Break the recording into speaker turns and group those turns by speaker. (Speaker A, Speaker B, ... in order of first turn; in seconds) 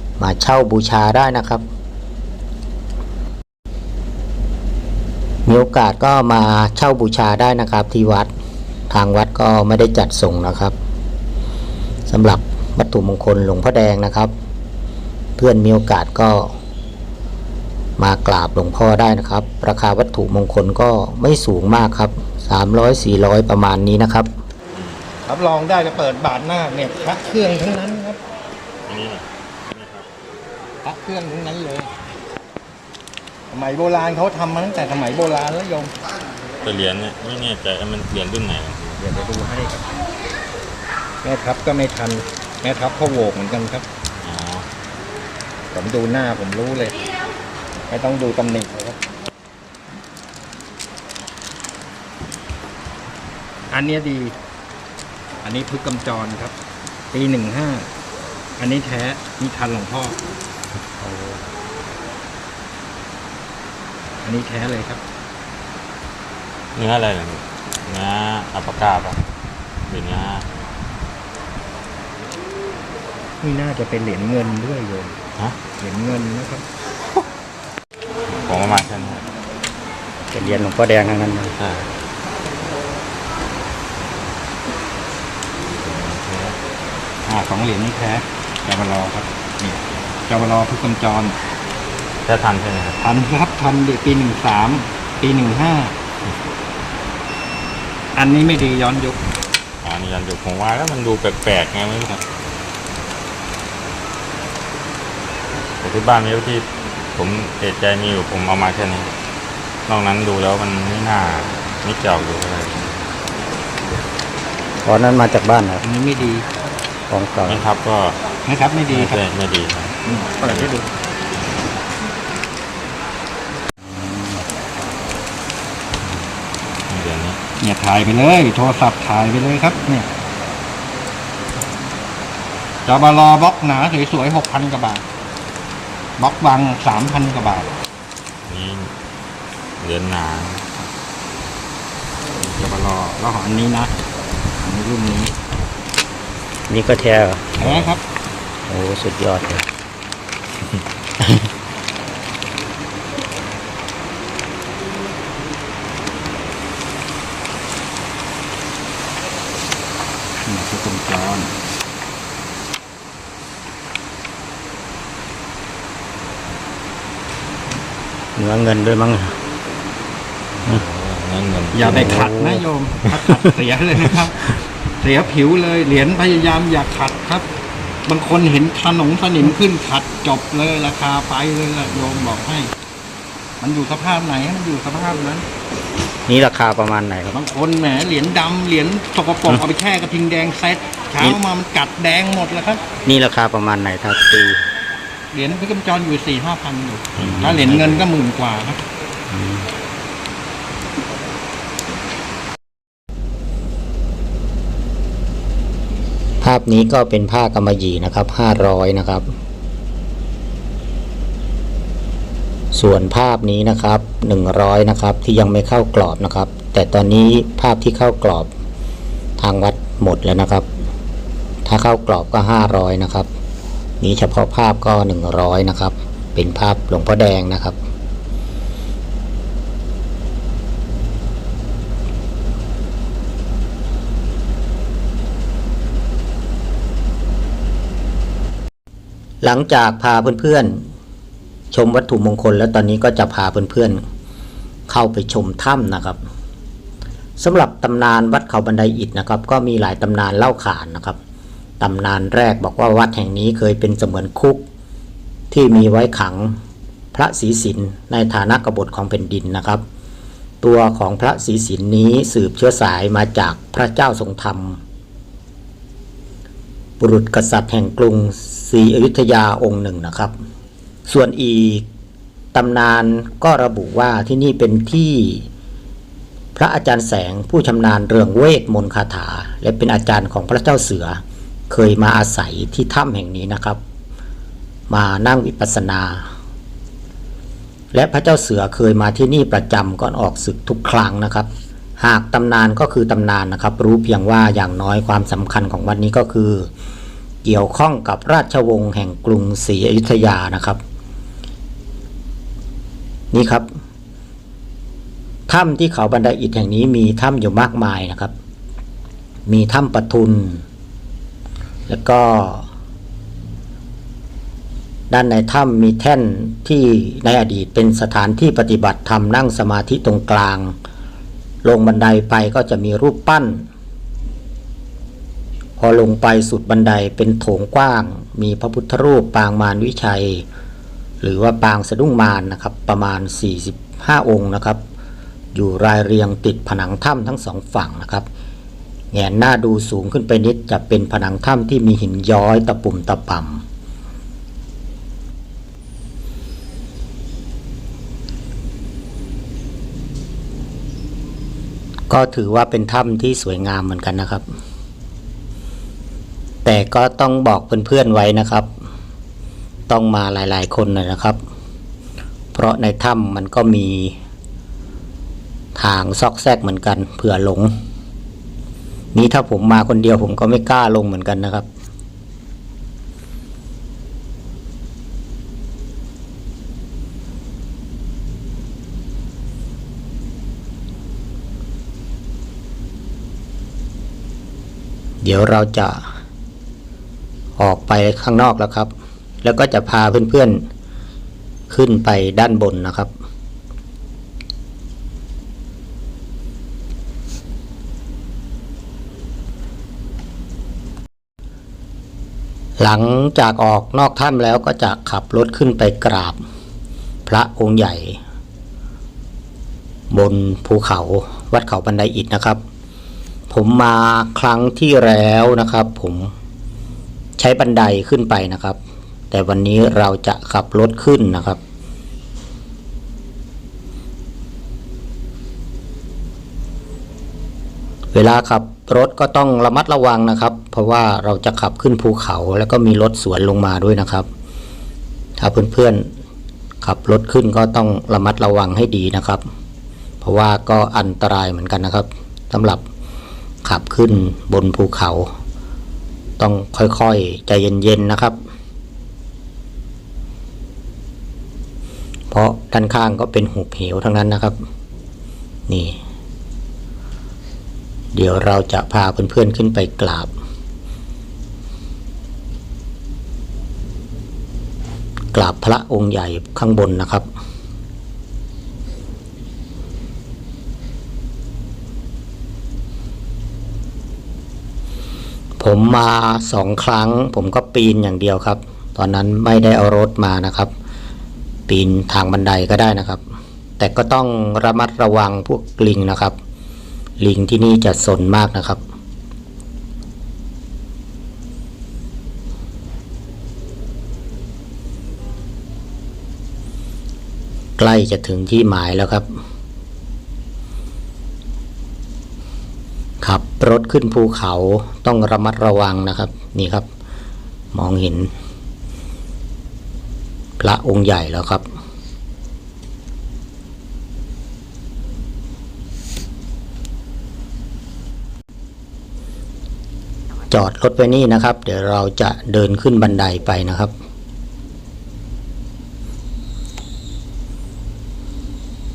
Speaker A: 0.2-1.6, 5.5-8.3, 8.9-10.7, 12.1-14.3, 15.4-16.5, 18.0-24.3, 61.0-61.5, 80.3-81.5, 114.8-115.8, 117.1-117.7, 146.7-147.6, 148.7-149.7, 168.3-169.3, 171.8-173.4, 186.3-187.4, 193.0-194.6, 197.2-197.8, 199.3-199.7, 206.4-209.3, 212.7-218.5, 219.4-220.7, 221.6-223.3, 224.0-227.8, 239.4-240.8, 241.7-244.0, 244.9-246.2, 247.4-251.2, 251.8-254.6, 255.5-256.5, 257.1-259.8, 260.6-264.8, 267.0-270.3, 271.1-271.8, 272.5-275.5, 276.6-283.8, 284.9-286.3, 287.9-296.7, 297.4-300.8, 303.3-303.6, 305.5-308.3, 309.5-310.6, 311.9-312.7, 315.1-320.7, 321.6-323.7, 325.8-330.4, 331.2-334.8, 335.5-338.2, 339.1-343.6, 352.1-354.4, 356.6-358.7, 359.9-361.4, 362.5-364.1, 365.7-367.7, 369.1-371.6, 385.2-386.0, 387.6-388.9, 389.4-390.6, 391.7-393.1, 402.8-406.4, 407.3-408.2, 410.1-412.6, 413.5-416.3, 417.4-418.8, 419.3-421.6, 428.1-434.3, 435.4-436.1, 436.8-439.4, 440.2-442.8, 443.6-445.3, 446.4-448.4, 452.3-454.5, 455.7-456.0, 458.1-460.3, 465.3-467.2, 475.6-480.7, 481.7-483.2, 483.8-486.3, 487.2-488.8, 497.8-499.3, 503.2-506.8, 507.7-508.3, 510.6-511.6, 520.5-523.9
Speaker B: 24.7-25.0, 28.9-30.1, 36.6-39.0, 44.2-44.7, 66.7-69.2, 69.9-70.5, 78.3-79.3, 81.5-81.9, 85.6-86.6, 92.2-93.0, 99.8-102.2, 105.8-109.1, 109.9-112.9, 117.5-118.2, 118.9-120.7, 126.9-127.4, 138.4-138.9, 139.8-140.7, 147.6-148.0, 170.6-172.2, 197.2-198.0
Speaker C: 25.2-28.2, 30.8-31.9, 33.5-35.9, 39.0-39.9, 41.2-43.9, 45.7-47.0, 47.9-49.0, 53.7-54.4, 55.4-56.5, 57.1-57.9, 58.6-60.2, 64.2-65.0, 73.4-75.2, 75.8-76.6, 87.2-91.3, 93.0-96.0, 98.1-99.2, 115.8-116.5, 118.4-119.2, 120.0-120.9, 127.6-130.1, 132.8-135.0, 136.2-137.7, 142.4-143.9, 144.6-145.3, 147.6-148.0, 160.4-161.5, 171.7-177.5, 178.0-182.7, 183.6-185.4, 187.3-192.8, 195.3-198.8